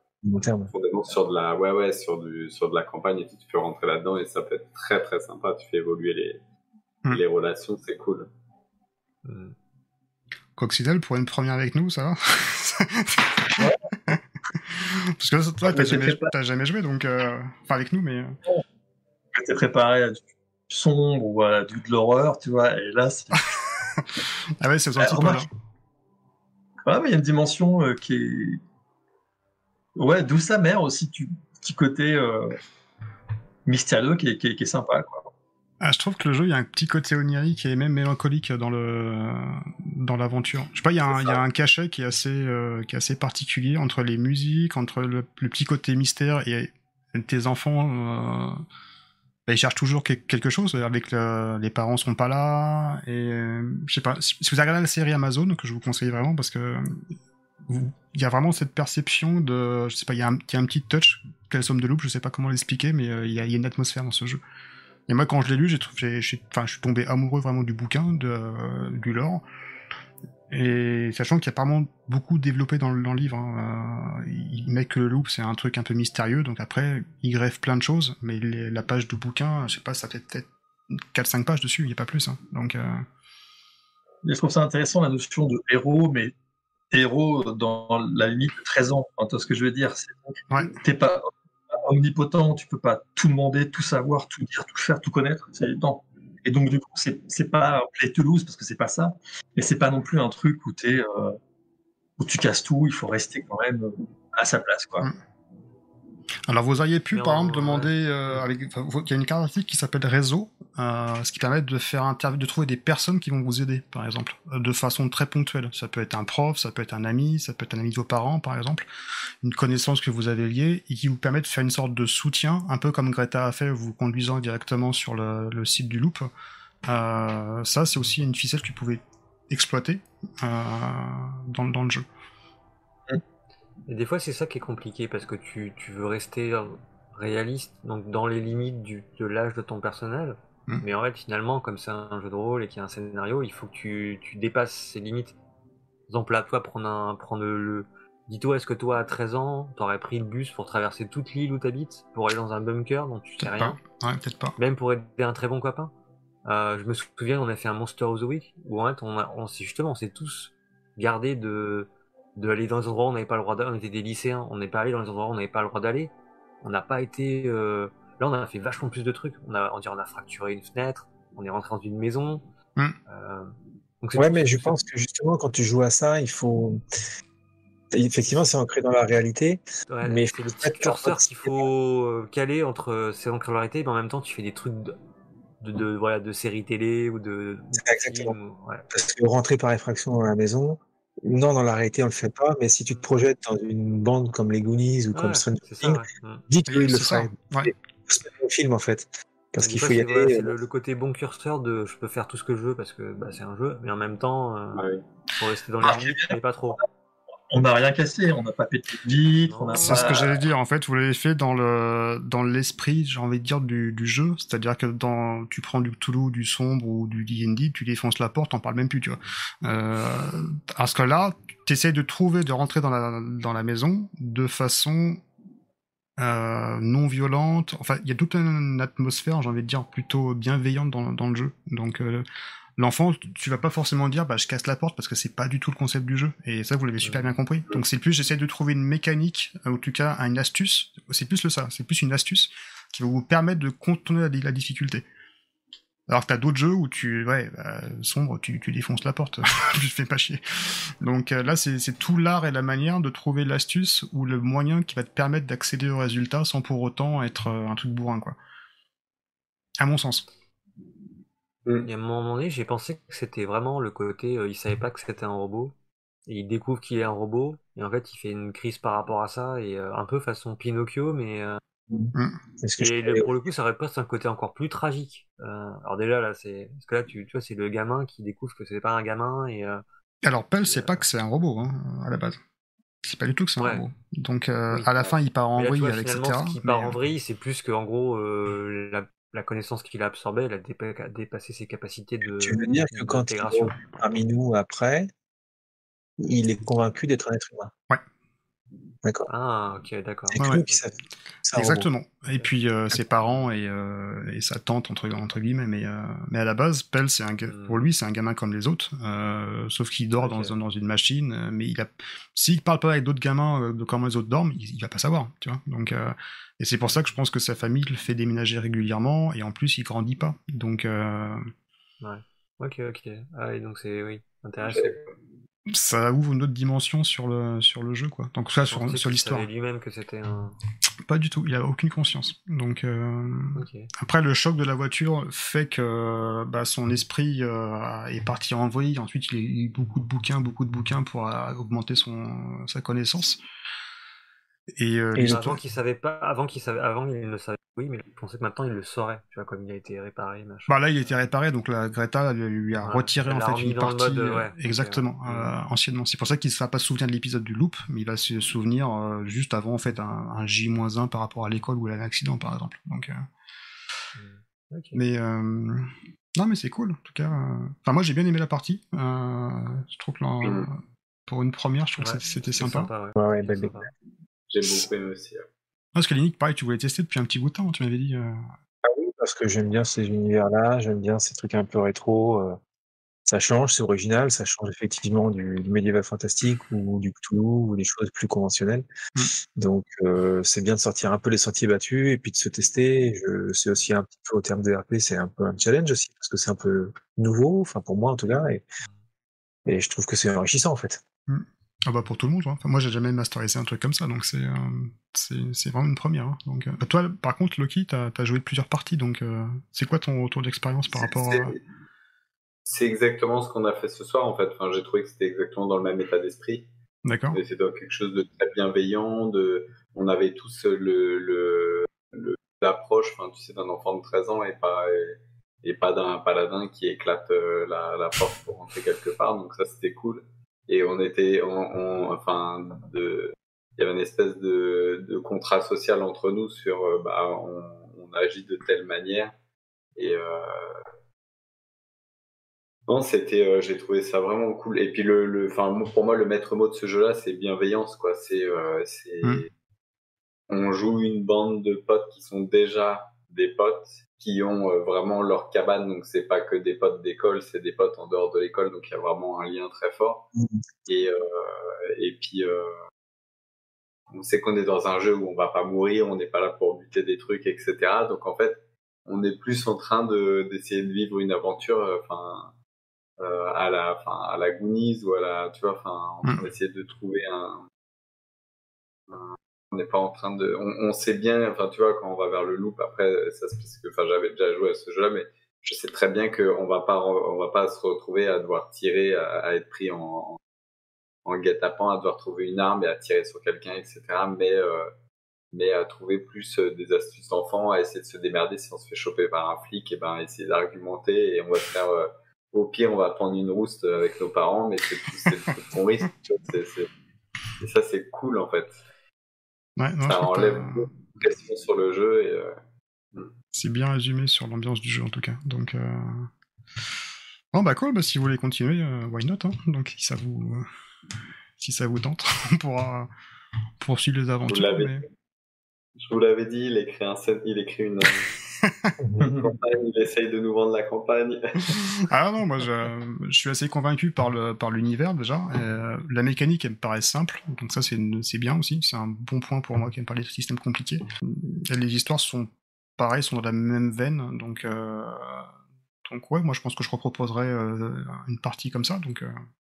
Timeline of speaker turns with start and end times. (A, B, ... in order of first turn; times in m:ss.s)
0:00.2-0:00.7 A
0:00.7-0:06.4 B
0:07.1-0:08.3 B
0:09.2-0:09.6 C
0:10.6-0:18.4 D
0:15.7-0:16.3 E
0:19.3-0:23.4 E
0:24.0-0:25.5 D
0:25.0-0:25.5 E
0:26.9-0:28.6 E
0:30.0-0:32.6 E
0:33.7-0:35.3 E
0:35.8-0:48.6 D
0:41.1-0:41.4 E
0:49.5-0:57.0 D
0:57.7-1:04.4 D
1:05.1-1:09.4 D
1:10.5-1:23.1 D
1:24.2-1:26.3 E
1:26.9-1:41.4 E
1:30.5-1:30.8 D
1:42.2-1:45.1 E
1:46.5-1:58.9 D
1:47.1-1:48.4 C
1:59.4-2:06.3 D
2:06.8-2:12.0 D
2:13.9-2:25.4 C
2:26.1-2:33.8 C
2:33.4-2:34.6 D
2:34.6-2:35.9 C
2:36.4-2:52.4 C
2:53.1-2:54.8 C
2:54.2-2:56.8 A
2:57.9-3:01.7 A
2:59.9-3:05.0 C
3:05.6-3:08.9 C
3:07.7-3:08.4 A
3:08.9-3:20.5 A
3:15.1-3:16.4 C
3:16.7-3:17.7 D
3:19.6-3:26.8 C
3:24.7-3:25.0 B
3:25.8-3:26.4 E
3:27.5-3:30.4 E
3:29.4-3:30.2 C
3:29.8-3:45.2 D
3:46.2-3:52.3 D
3:52.8-4:05.0 D
3:57.0-3:57.3 C
4:06.1-4:10.4 D
4:11.0-4:18.4 D
4:19.8-4:20.3 D
4:21.8-4:25.7 C
4:26.3-4:31.6 C
4:31.9-4:33.4 A
4:32.2-4:32.4 D
4:32.8-4:39.8 C
4:40.2-4:42.4 D
4:40.6-4:41.0 C
4:43.0-4:47.0 D
4:43.6-4:43.8 C
4:45.6-4:53.8 C
4:52.4-4:55.1 A
4:56.2-4:57.7 A
4:59.0-4:59.3 A
4:59.3-5:00.9 C
5:00.3-5:00.9 A
5:00.4-5:00.6 D
5:01.4-5:01.9 A
5:01.5-5:21.5 D
5:07.5-5:07.8 C
5:10.2-5:10.6 C
5:22.0-5:25.0 C
5:24.7-5:25.1 B
5:25.7-5:29.5 D
5:28.7-5:30.6 C
5:31.0-5:43.4 D
5:33.6-5:33.9 C
5:44.8-5:45.6 D
5:45.2-5:45.4 A
5:45.2-5:51.2 C
5:50.7-6:03.3 D
5:52.8-5:55.6 C
6:04.2-6:05.0 C
6:04.9-6:12.9 D
6:10.4-6:10.7 B
6:12.0-6:13.9 C
6:13.2-6:13.9 A
6:14.5-6:15.4 B
6:16.0-6:18.4 D
6:18.8-6:22.6 A
6:23.3-6:28.9 A
6:29.5-6:38.6 A
6:39.7-6:41.0 A
6:41.3-6:51.6 D
6:50.9-6:51.6 B
6:52.7-6:56.7 B
6:57.0-6:57.4 D
6:57.3-7:19.3 B
7:20.0-7:20.8 B
7:22.9-7:29.5 B
7:30.5-7:40.3 B
7:40.9-7:42.8 B
7:44.1-7:52.5 B
7:53.2-7:57.7 B
7:59.1-8:10.4 B
8:11.2-8:14.9 B
8:15.5-8:26.9 B
8:27.6-8:28.8 B
8:29.8-8:30.9 D
8:30.1-8:32.6 B
8:33.5-8:36.3 D
8:37.5-8:40.7 D
8:41.6-8:43.1 D
8:43.8-8:45.0 D
8:44.5-8:45.0 B
8:46.0-8:48.4 B
8:48.6-8:49.0 D
8:49.2-8:49.6 E
8:49.4-8:51.8 B
8:51.7-9:05.4 D
9:06.1-9:09.4 D